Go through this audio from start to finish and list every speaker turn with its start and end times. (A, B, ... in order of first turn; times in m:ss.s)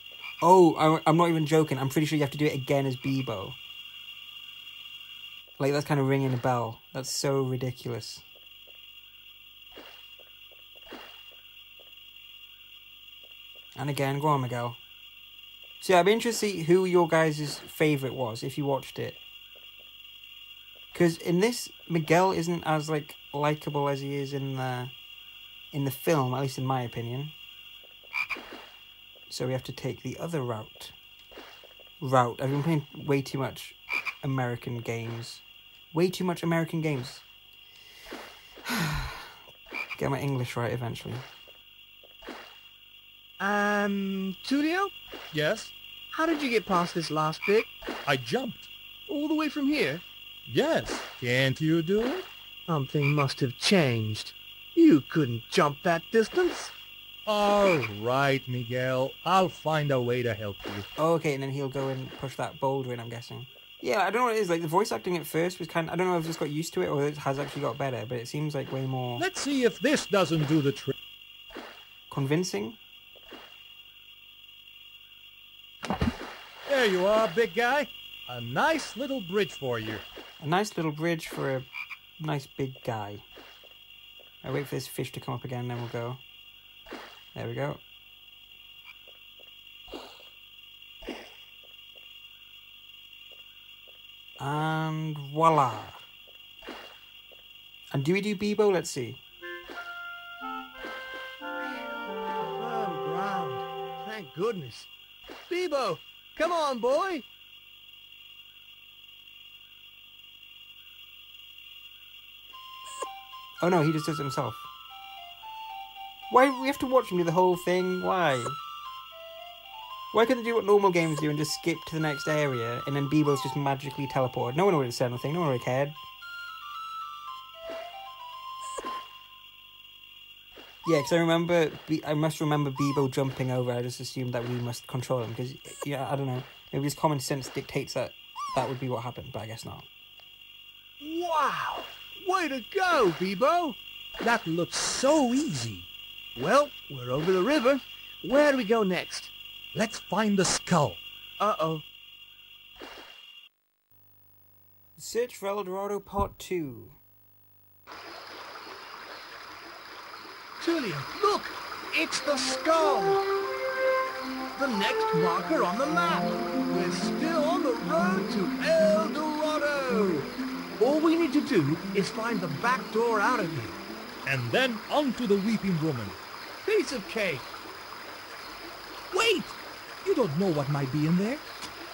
0:00.4-0:03.6 A
0:05.6-0:08.2 A
0:13.8-0:14.8 A
0:15.8-0:19.2 A
0:20.9-0:24.9 A
0:25.7-0:27.3 A
0:29.3-0:30.9 A
0:32.0-0:37.2 A
0:38.7-0:39.3 A
0:40.0-0:41.2 A
0:43.4-0:44.9 B
0:45.3-0:45.7 C
0:46.1-0:47.7 B
0:48.0-0:48.7 C
0:49.1-0:50.0 B
0:50.5-0:52.2 C
0:52.7-0:56.7 B
0:57.2-1:00.8 C
1:01.0-1:09.2 A
1:09.2-1:10.9 C
1:12.1-1:12.8 A
1:16.7-1:20.0 C
1:20.4-1:21.7 A
1:22.2-1:23.2 A
1:24.4-1:26.2 A
1:27.3-1:27.8 A
1:34.4-1:36.0 A
1:37.9-1:39.2 A
1:42.4-1:44.9 B
1:45.5-1:47.2 B
1:53.6-1:54.7 A
1:56.3-1:58.6 A
2:00.1-2:06.0 A
2:10.8-2:19.9 A
2:21.0-2:23.8 B
2:24.2-2:25.9 C
2:26.4-2:29.3 B
2:29.7-2:31.0 C
2:31.4-2:31.8 B
2:35.0-2:37.0 A
2:40.6-2:43.3 B
2:44.5-2:53.8 B
2:54.2-2:56.2 C
2:56.6-2:57.5 B
2:59.1-3:01.4 C